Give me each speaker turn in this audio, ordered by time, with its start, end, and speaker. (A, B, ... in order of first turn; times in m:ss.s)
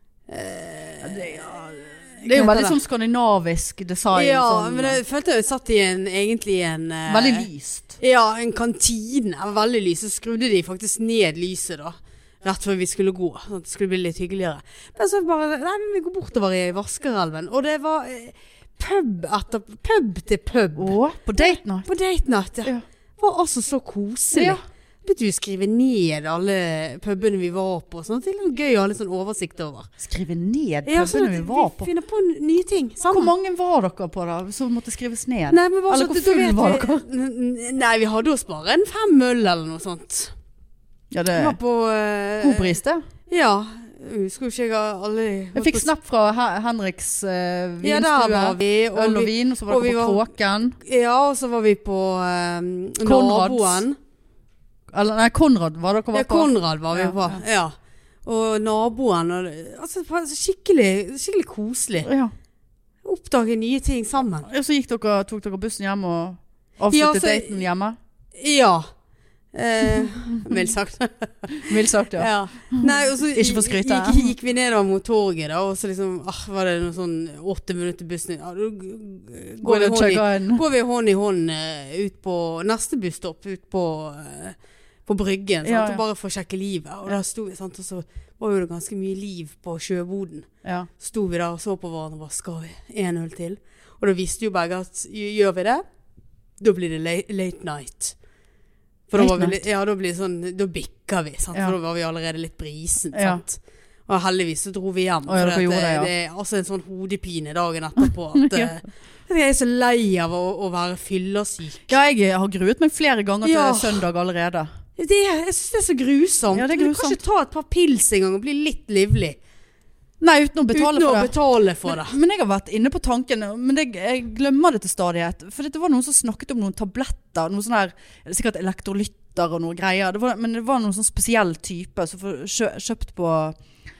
0:00.3-0:01.5 A
0:01.0-0:05.0 B
0:02.2-0:02.8 A
0:04.1-0:07.5 A
0:07.1-0:08.0 B
0:08.0-0:29.9 A
0:20.8-0:21.9 B
0:24.3-0:24.6 B
0:30.0-0:31.9 B
0:30.9-0:33.3 A
0:33.1-0:37.0 B
0:35.5-0:40.3 A
0:41.1-0:41.6 B
0:41.3-0:42.8 A
0:42.4-0:43.0 B
0:43.3-0:45.9 A
0:45.6-0:50.8 B
0:47.8-0:50.2 A
0:50.8-0:54.0 A
0:53.0-0:53.9 B
0:54.9-0:57.4 B
0:56.1-0:57.8 A
0:58.3-1:02.1 A
1:02.0-1:02.3 B
1:03.0-1:04.5 A
1:04.5-1:08.0 B
1:06.9-1:07.6 A
1:08.4-1:08.9 A
1:09.5-1:30.5 A
1:09.8-1:10.7 B
1:11.6-1:14.3 B
1:19.6-1:20.6 B
1:25.6-1:26.0 B
1:30.6-1:30.9 B
1:31.0-1:35.8 A
1:36.6-1:38.2 A
1:39.1-1:51.9 A
1:39.2-1:39.6 B
1:43.1-1:43.4 B
1:45.3-1:46.1 B
1:48.0-1:48.7 B
1:51.9-1:54.7 B
1:53.4-1:54.0 A
1:55.0-1:59.4 A
1:56.5-1:57.2 B
2:00.2-2:01.4 B
2:00.7-2:02.2 A
2:01.9-2:13.6 B